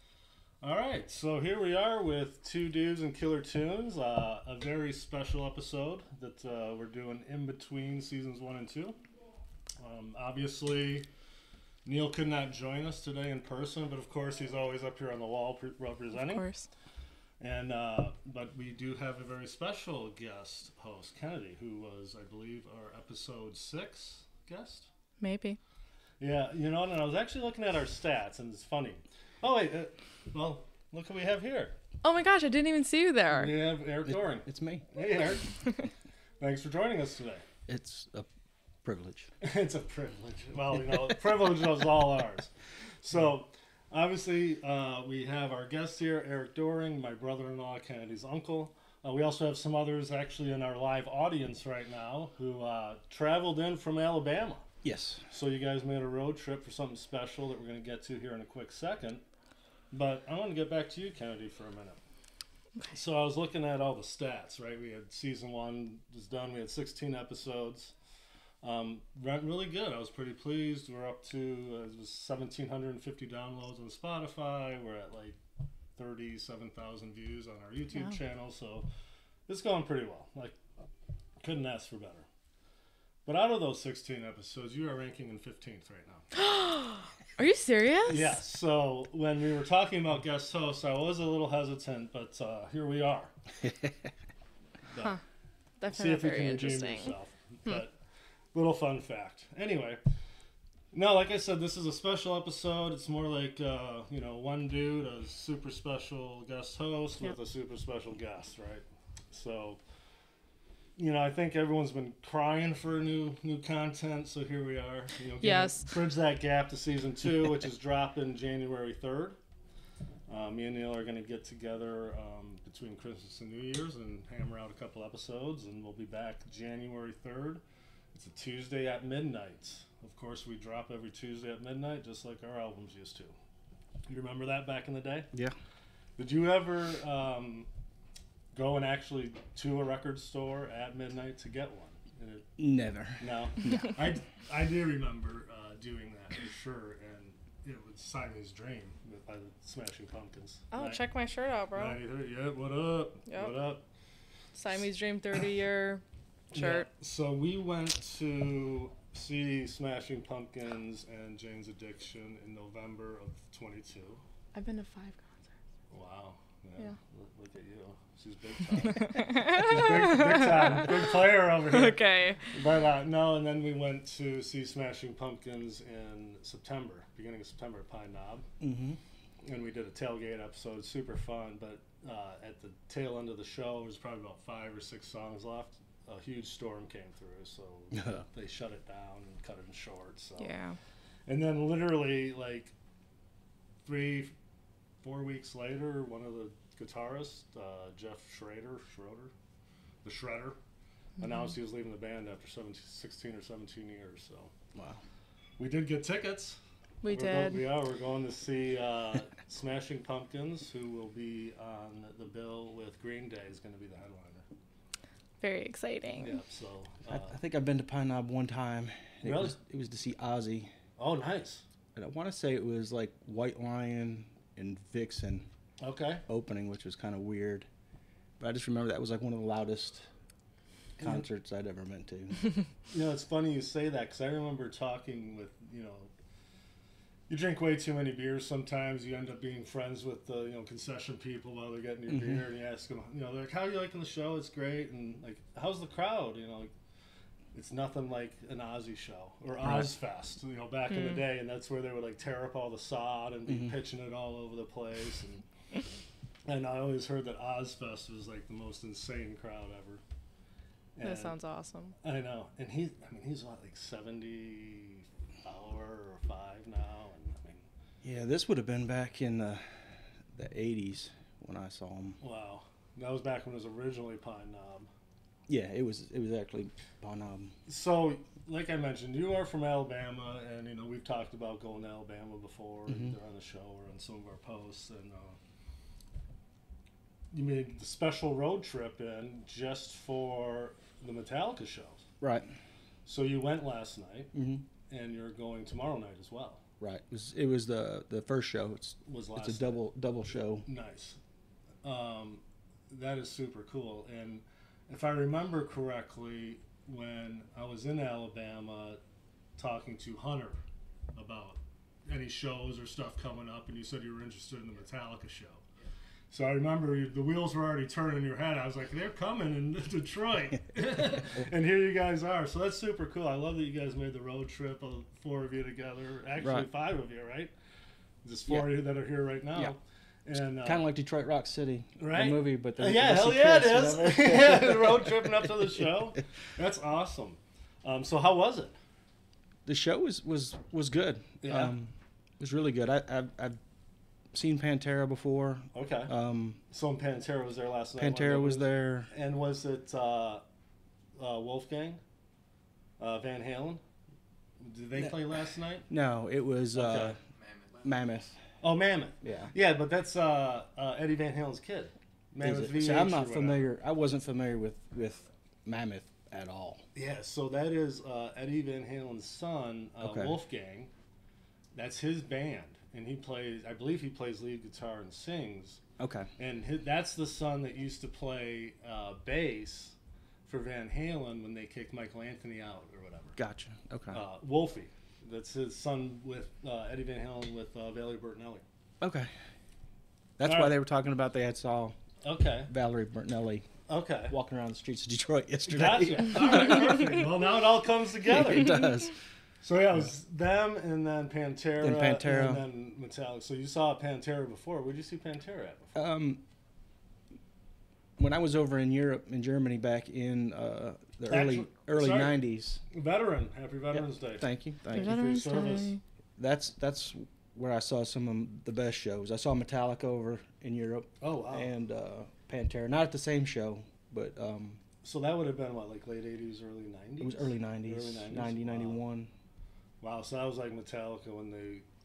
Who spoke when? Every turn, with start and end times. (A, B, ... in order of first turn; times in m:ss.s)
0:00.6-0:09.0 A
0:09.8-0:11.1 A
0:11.8-0:16.4 A
0:16.1-0:16.7 B
0:17.4-0:24.9 A
0:25.2-0:25.6 B
0:26.2-0:31.8 A
0:32.0-0:33.6 B
0:33.3-0:35.7 A
0:34.0-0:34.9 C
0:36.4-0:37.4 A
0:37.7-0:38.3 C
0:38.8-0:39.3 C
0:39.4-0:42.5 A
0:43.0-0:54.7 A
0:54.8-0:55.2 C
0:55.3-0:59.2 A
0:59.9-1:02.0 A
1:02.9-1:07.9 A
1:08.6-1:15.4 A
1:16.0-1:18.9 A
1:19.5-1:20.6 A
1:21.4-1:22.3 A
1:23.2-1:26.3 A
1:26.3-1:28.4 B
1:28.0-1:33.3 A
1:33.6-1:33.9 C
1:34.9-1:35.2 A
1:35.8-1:37.1 B
1:35.9-1:38.0 A
1:38.5-1:40.0 A
1:40.9-1:49.8 A
1:51.0-1:59.4 A
1:55.4-1:55.9 B
2:00.3-2:07.6 A
2:08.1-2:13.3 A
2:14.1-2:15.3 A
2:16.2-2:17.7 A
2:18.5-2:22.5 A
2:22.6-2:24.0 C
2:23.2-2:31.0 A
2:30.7-2:32.0 B
2:31.8-2:33.8 A
2:33.3-2:33.6 B
2:34.5-2:36.9 B
2:36.5-2:44.2 A
2:44.5-2:45.4 B
2:45.9-2:58.5 A
2:48.8-2:52.5 B
2:58.6-2:59.0 C
2:59.4-3:10.5 A
3:07.9-3:08.2 C
3:10.4-3:10.8 B
3:11.3-3:12.7 A
3:13.8-3:14.3 A
3:15.0-3:19.3 A
3:20.0-3:20.6 A
3:21.2-3:24.5 A
3:24.8-3:25.0 C
3:25.6-3:34.4 A
3:27.0-3:27.7 B
3:35.4-3:36.4 B
3:36.2-3:37.4 A
3:37.1-3:40.7 C
3:39.2-3:39.6 A
3:41.0-3:41.6 A
3:42.0-3:45.5 C
3:45.8-3:46.2 A
3:46.3-3:47.7 C
3:48.4-3:50.1 C
3:51.0-3:52.4 C
3:52.9-3:56.1 A
3:57.3-4:06.7 A
4:02.1-4:02.4 C
4:07.5-4:15.4 A
4:09.6-4:09.9 C
4:10.9-4:11.2 B
4:13.5-4:13.7 C
4:16.5-4:20.0 A
4:21.0-4:21.4 A
4:21.0-4:22.0 B
4:22.0-4:27.7 A
4:28.0-4:32.2 C
4:32.2-4:34.9 A
4:35.5-4:37.6 C
4:37.6-4:45.4 A
4:42.9-4:43.1 C
4:47.3-4:52.0 A
4:52.2-4:52.5 C
4:53.1-4:54.3 A
4:54.3-4:54.6 C
4:54.9-4:56.6 A
4:56.8-5:00.7 C
4:59.0-4:59.8 A
5:00.6-5:01.2 A
5:01.8-5:09.0 A
5:09.6-5:10.6 A
5:11.1-5:15.6 A
5:16.3-5:27.5 A
5:26.4-5:26.7 C
5:28.2-5:30.9 A
5:28.5-5:28.8 C
5:30.5-5:35.8 C
5:32.0-5:38.8 A
5:39.6-5:43.6 C
5:41.4-5:41.7 A
5:44.3-5:46.6 C
5:45.7-5:46.1 A
5:46.7-5:50.4 A
5:48.0-5:49.1 C
5:51.2-5:52.0 A
5:53.0-5:53.8 A
5:54.6-5:55.9 A
5:55.9-5:57.2 C
5:56.7-5:57.2 A
5:57.8-5:58.4 C
5:58.6-6:03.7 A
5:59.2-5:59.5 C
6:02.4-6:06.8 C
6:06.9-6:10.9 A
6:10.0-6:10.4 C
6:11.7-6:15.8 A
6:16.0-6:16.3 C
6:16.4-6:23.4 A
6:23.4-6:24.2 C
6:24.1-6:28.6 A
6:29.0-6:29.3 C
6:30.4-6:32.0 C
6:30.4-6:30.8 A
6:32.2-6:32.7 A
6:32.7-6:33.7 C
6:33.9-6:34.4 A
6:34.3-6:37.1 C
6:35.6-6:38.9 A
6:38.2-6:39.1 C
6:39.6-6:46.0 A
6:41.8-6:42.6 C
6:45.9-6:46.4 C
6:48.2-6:52.8 C
6:51.3-6:56.0 A
6:53.9-6:55.2 C
6:54.9-6:56.0 B
6:56.4-7:04.8 C
7:01.2-7:01.7 A
7:05.0-7:09.0 A
7:07.2-7:09.3 C
7:10.0-7:11.8 A